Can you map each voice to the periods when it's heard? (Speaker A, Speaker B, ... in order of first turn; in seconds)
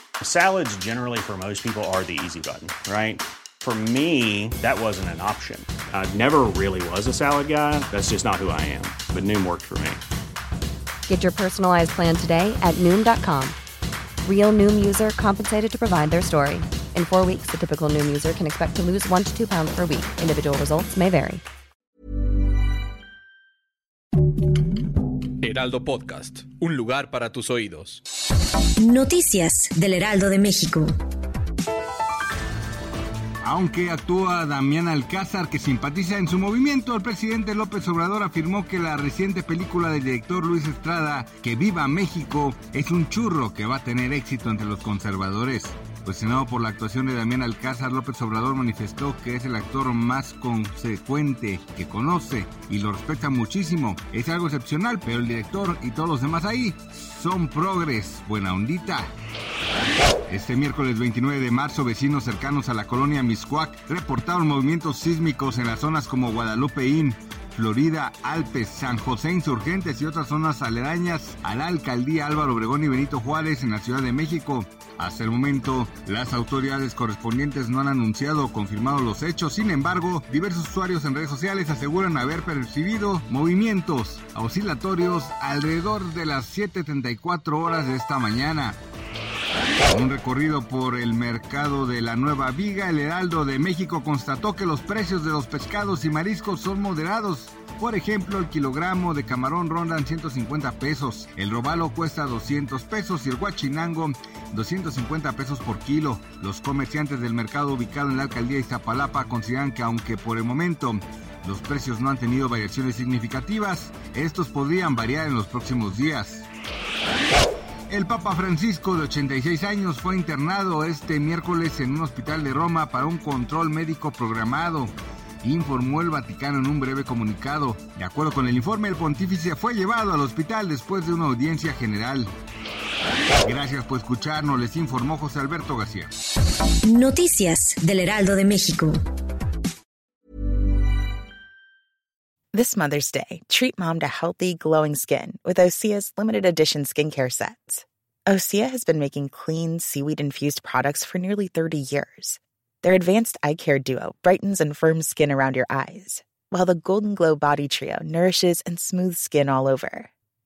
Speaker A: 0.2-10.0
Speaker B: 11.1-13.6, 14.2-21.4
Speaker C: 25.4-28.0
Speaker D: 28.8-30.9, 136.9-139.0
Speaker E: 33.4-59.1, 60.3-88.8, 89.9-116.5, 117.9-132.3, 133.4-136.1
Speaker F: 142.5-160.1